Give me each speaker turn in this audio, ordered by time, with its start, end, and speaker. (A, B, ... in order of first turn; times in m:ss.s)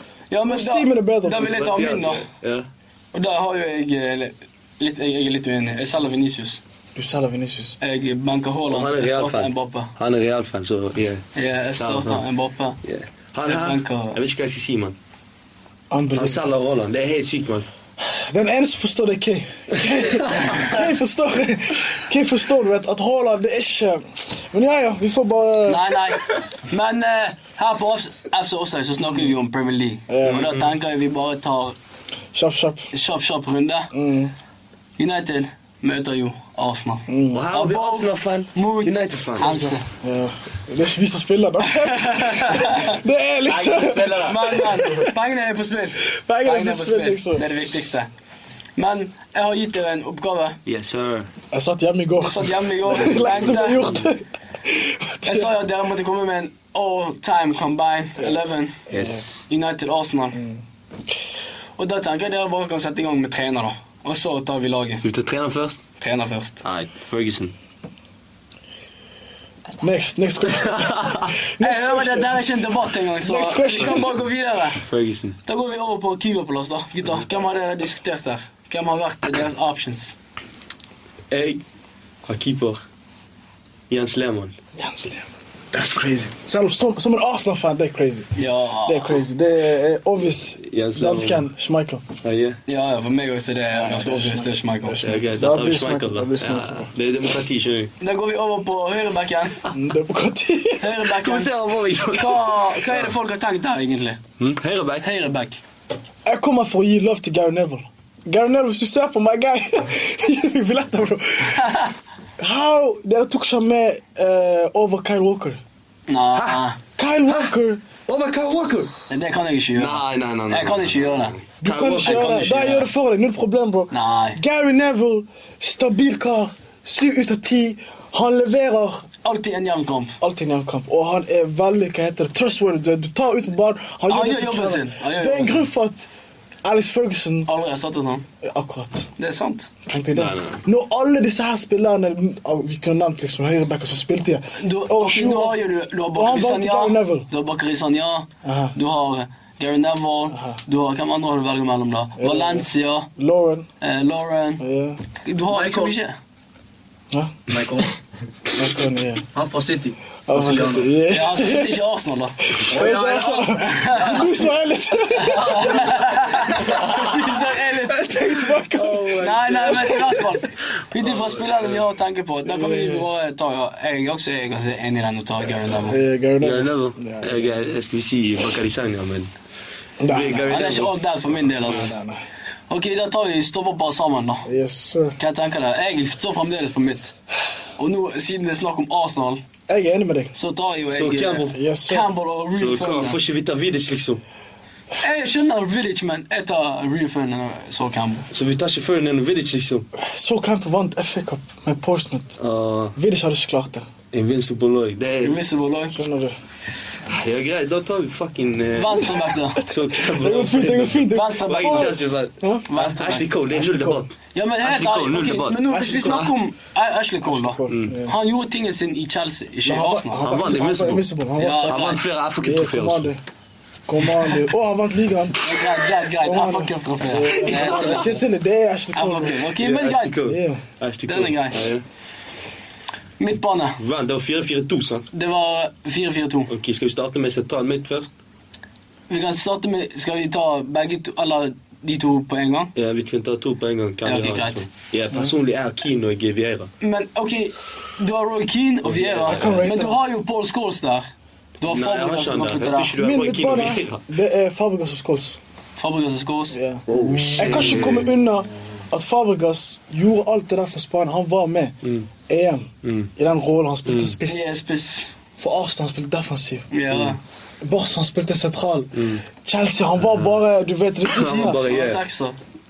0:00.3-0:02.2 A
0:00.5-0:01.5 B
0:01.4-0:02.6 C
0:03.1-0:06.6 A
0:07.0-0:07.8 B
0:07.8-0:09.9 A
0:08.7-0:11.2 C
0:11.3-0:12.8 A
0:11.8-0:12.2 C
0:12.8-0:14.9 C
0:13.4-0:14.2 A
0:15.9-0:16.4 B
0:16.1-0:17.7 C
0:18.0-0:25.9 B
0:20.1-0:20.6 C
0:25.7-0:31.8 A
0:30.1-0:30.5 B
0:30.2-0:30.7 C
0:32.3-0:32.9 B
0:32.9-0:33.9 A
0:33.9-0:34.3 B
0:35.0-0:39.8 A
0:37.1-0:37.4 B
0:37.3-0:39.5 C
0:39.4-0:45.1 B
0:41.8-0:43.0 A
0:43.4-0:44.6 D
0:44.2-0:48.1 A
0:46.1-0:47.4 B
0:48.8-0:50.6 A
0:50.6-0:51.3 C
0:51.5-0:55.5 B
0:52.2-0:54.0 A
0:53.0-0:54.0 C
0:55.2-0:58.8 A
0:58.9-0:59.3 C
0:58.9-0:59.2 B
0:59.5-1:00.4 A
1:00.3-1:00.6 B
1:01.8-1:05.0 A
1:05.0-1:05.8 C
1:06.0-1:06.6 A
1:06.6-1:07.5 C
1:09.8-1:12.4 B
1:10.5-1:11.3 C
1:11.6-1:14.8 A
1:13.2-1:14.1 B
1:14.8-1:15.4 C
1:15.4-1:20.2 A
1:21.3-1:21.6 C
1:22.3-1:22.8 C
1:23.9-1:24.6 C
1:24.8-1:28.3 B
1:28.3-1:29.2 A
1:28.8-1:32.0 B
1:30.6-1:31.4 C
1:32.2-1:32.6 C
1:32.7-1:35.0 A
1:33.7-1:36.9 B
1:35.0-1:37.9 C
1:38.0-1:39.6 A
1:39.7-1:41.0 B
1:40.8-1:41.5 A
1:41.1-1:43.1 C
1:42.1-1:44.2 A
1:44.4-1:45.0 C
1:45.0-1:45.6 A
1:46.2-1:51.8 B
1:51.5-1:51.9 A
1:52.4-1:55.6 B
1:56.1-1:56.8 A
1:56.3-1:56.6 C
1:57.0-1:57.8 B
1:57.3-1:57.5 C
1:58.1-1:58.9 C
1:59.1-2:01.4 A
1:59.8-2:02.5 C
2:01.6-2:09.0 B
2:02.0-2:02.9 A
2:03.9-2:04.4 A
2:09.2-2:10.1 A
2:10.2-2:16.0 B
2:14.1-2:15.6 A
2:16.6-2:17.5 B
2:17.4-2:18.2 A
2:18.4-2:19.1 B
2:19.2-2:19.7 A
2:19.8-2:25.6 B
2:20.1-2:20.6 C
2:24.6-2:33.1 A
2:26.1-2:27.3 B
2:28.4-2:28.7 B
2:30.3-2:30.6 B
2:32.2-2:33.6 B
2:33.8-2:34.6 A
2:34.6-2:35.0 B
2:35.2-2:36.2 A
2:35.4-2:35.9 D
2:37.5-2:38.0 D
2:38.5-2:39.2 B
2:39.3-2:40.9 D
2:40.3-2:41.8 B
2:41.1-2:44.3 A
2:42.4-2:45.8 B
2:42.7-2:43.2 D
2:43.9-2:44.2 D
2:45.1-2:48.1 A
2:45.3-2:46.8 D
2:47.0-2:50.3 B
2:48.9-2:49.7 D
2:49.1-2:56.0 A
2:51.0-2:51.8 C
2:52.4-2:53.1 B
2:55.9-2:57.4 B
2:56.4-2:59.3 C
3:00.0-3:00.7 B
3:00.1-3:01.0 C
3:00.5-3:01.9 A
3:01.6-3:02.2 B
3:02.7-3:04.4 A
3:04.4-3:05.2 B
3:05.2-3:07.1 A
3:07.8-3:09.4 A
3:09.7-3:10.3 B
3:10.3-3:13.2 A
3:10.9-3:11.5 C
3:11.5-3:12.1 B
3:12.5-3:14.2 C
3:15.0-3:18.2 A
3:18.3-3:19.8 C
3:20.0-3:22.4 B
3:22.4-3:22.9 C
3:23.0-3:23.8 B
3:24.1-3:25.4 C
3:25.2-3:26.0 A
3:25.9-3:26.4 B
3:27.1-3:36.4 C
3:28.7-3:29.7 A
3:29.9-3:32.7 B
3:31.1-3:31.9 A
3:32.7-3:33.3 A
3:33.5-3:34.0 B
3:34.3-3:40.2 A
3:35.9-3:36.2 B
3:37.2-3:38.2 B
3:37.7-3:37.9 C
3:39.6-3:41.8 B
3:40.2-3:41.0 C
3:41.4-3:42.0 A
3:41.7-3:43.1 C
3:42.4-3:43.2 B
3:43.9-3:45.4 B
3:45.4-3:48.2 A
3:46.2-3:49.5 B
3:47.3-3:48.1 C
3:48.9-3:50.2 A
3:49.6-3:51.8 C
3:50.2-3:50.6 B
3:51.0-3:51.6 A
3:53.2-3:53.8 A
3:53.8-3:55.1 C
3:55.1-3:56.5 A
3:56.5-3:58.1 C
3:59.1-4:02.7 A
4:02.7-4:06.7 C
4:04.0-4:04.6 A
4:06.8-4:11.1 A
4:08.8-4:09.6 C
4:09.3-4:10.0 B
4:11.6-4:12.9 A
4:11.7-4:14.0 C
4:13.0-4:15.4 B
4:15.8-4:16.6 A
4:16.5-4:21.8 B
4:16.9-4:18.1 C
4:22.3-4:24.5 B
4:22.8-4:23.1 C
4:23.8-4:24.2 C
4:24.3-4:25.2 A
4:25.4-4:26.7 B
4:26.7-4:27.2 A
4:26.9-4:27.2 C
4:27.6-4:31.6 B
4:28.9-4:29.2 C
4:30.0-4:30.4 C
4:31.0-4:32.0 C
4:31.7-4:32.4 A